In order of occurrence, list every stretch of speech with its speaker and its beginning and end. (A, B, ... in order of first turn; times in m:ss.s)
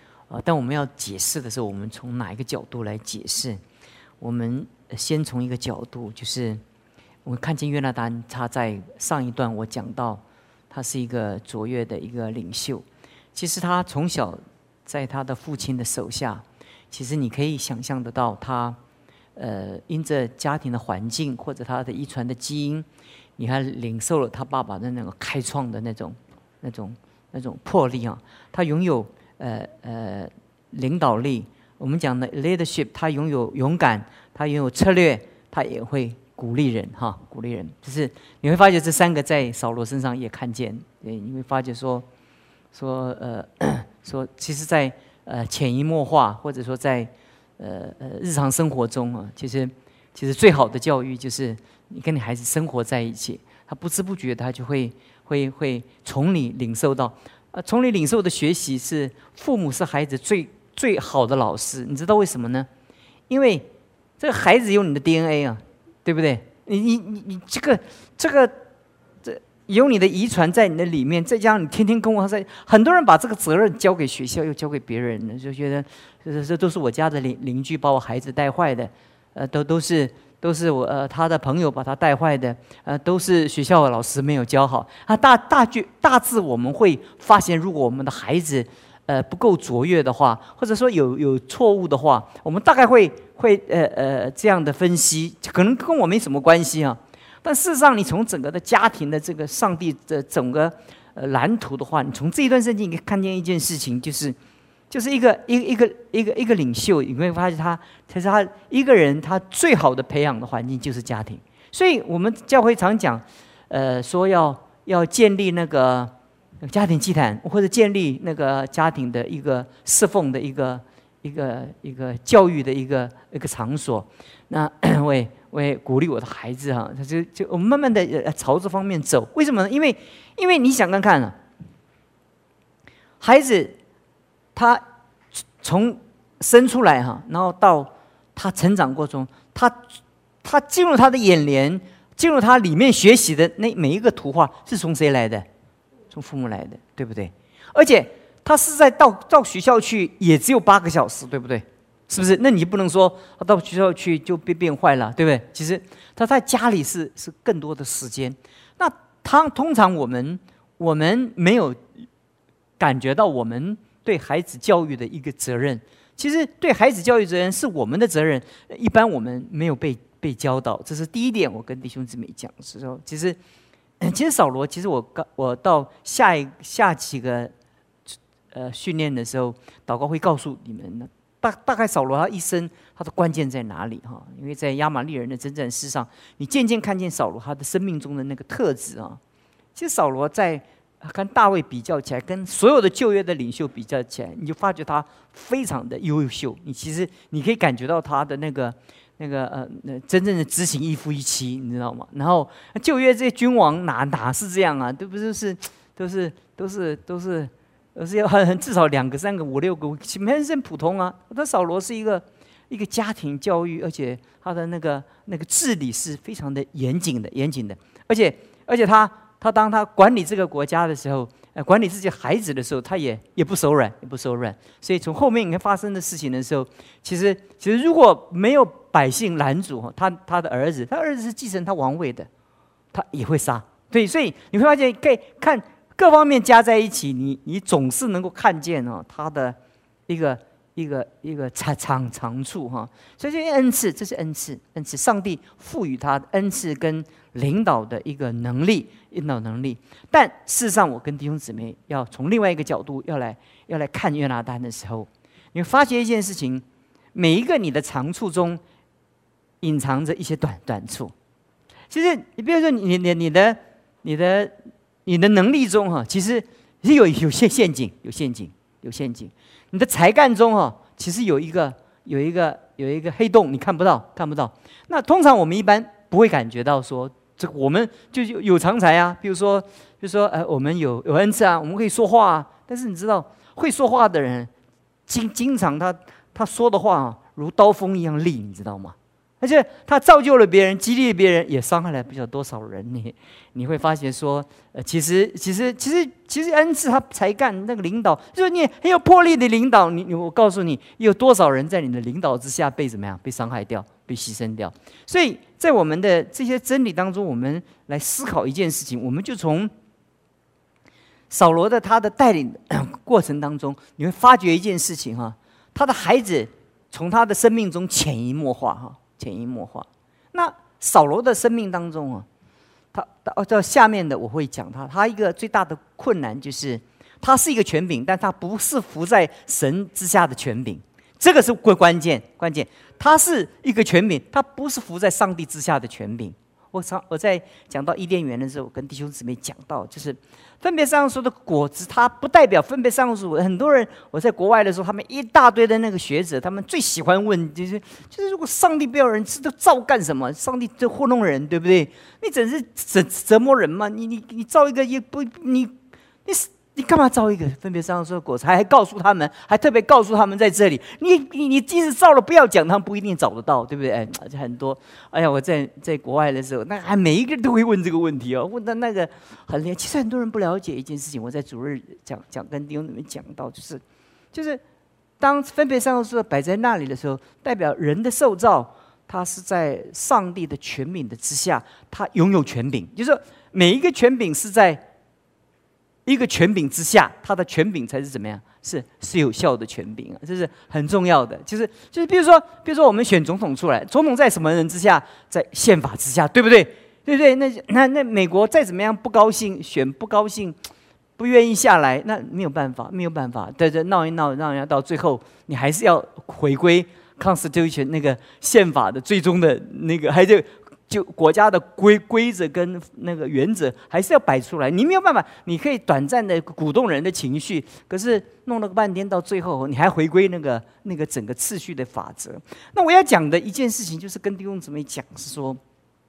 0:00.3-0:03.6 A
0:04.2-0:06.6 A
0:07.2-0:18.8 A
0:19.4-0:22.8 A
0:23.4-0:42.0 A
0:42.7-1:02.7 A
1:03.3-1:03.7 A
1:04.2-1:08.5 A
1:09.2-1:44.4 A
1:44.9-1:56.1 A
1:56.6-2:11.4 A
2:13.2-2:13.8 A
2:14.5-2:14.8 A
2:15.4-2:19.8 A
2:20.4-2:25.4 A
2:26.1-2:41.9 A
2:42.8-2:53.4 A
2:54.0-2:57.5 A
2:58.5-3:09.2 A
3:09.8-3:52.3 A
3:52.9-3:59.6 A
4:00.1-4:18.6 A
4:19.6-4:21.1 A
4:21.9-4:24.5 A
4:25.0-4:44.5 A
4:45.1-5:09.7 A
5:11.3-5:22.2 A
5:22.9-5:55.7 A
5:56.2-6:13.8 A
6:14.3-6:14.6 A
6:15.2-6:24.8 A
6:26.0-6:40.6 A
6:41.2-7:05.6 A